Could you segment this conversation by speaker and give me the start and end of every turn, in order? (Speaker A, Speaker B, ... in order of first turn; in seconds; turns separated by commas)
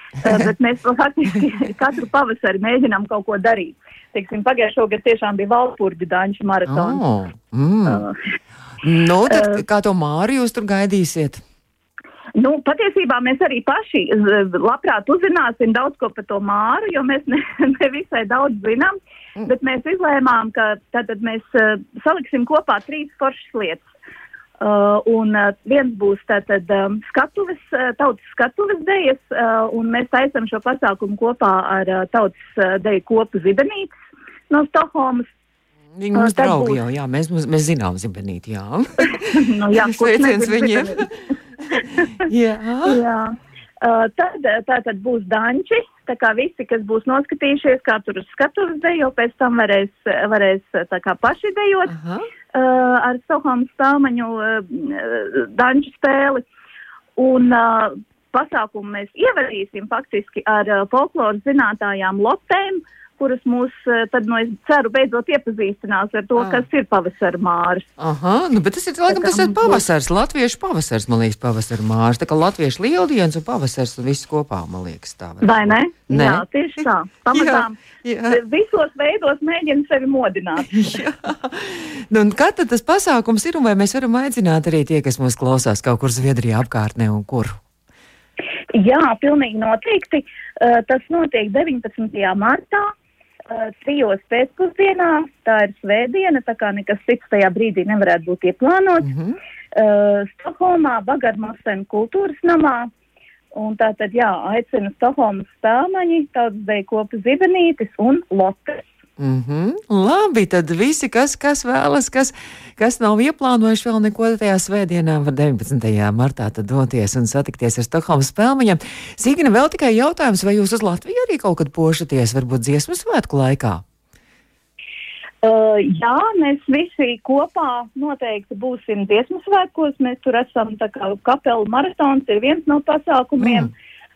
Speaker A: 0.2-7.0, Speaker B: 6.7-8.0, Speaker A: 7.8-8.1, Speaker B: 8.8-11.4, Speaker A: 9.3-9.6, Speaker A: 12.3-23.9, Speaker A: 24.6-33.9, Speaker A: 34.5-35.2, Speaker B: 36.0-41.1, Speaker A: 36.1-36.8, Speaker A: 39.1-41.1, Speaker B: 42.2-43.0, Speaker A: 42.9-51.9, Speaker B: 51.9-52.2, Speaker A: 52.5-56.4, Speaker A: 57.2-67.9, Speaker B: 66.4-66.6, Speaker B: 68.0-76.4, Speaker A: 69.1-69.8, Speaker A: 75.4-77.8, Speaker B: 77.3-78.4, Speaker A: 78.3-80.8, Speaker B: 80.7-87.6, Speaker A: 88.7-92.9, Speaker A: 93.5-99.1, Speaker B: 99.0-99.4, Speaker A: 99.7-102.9, Speaker A: 103.5-108.9, Speaker B: 109.2-123.8, Speaker A: 125.4-133.7, Speaker B: 133.4-133.7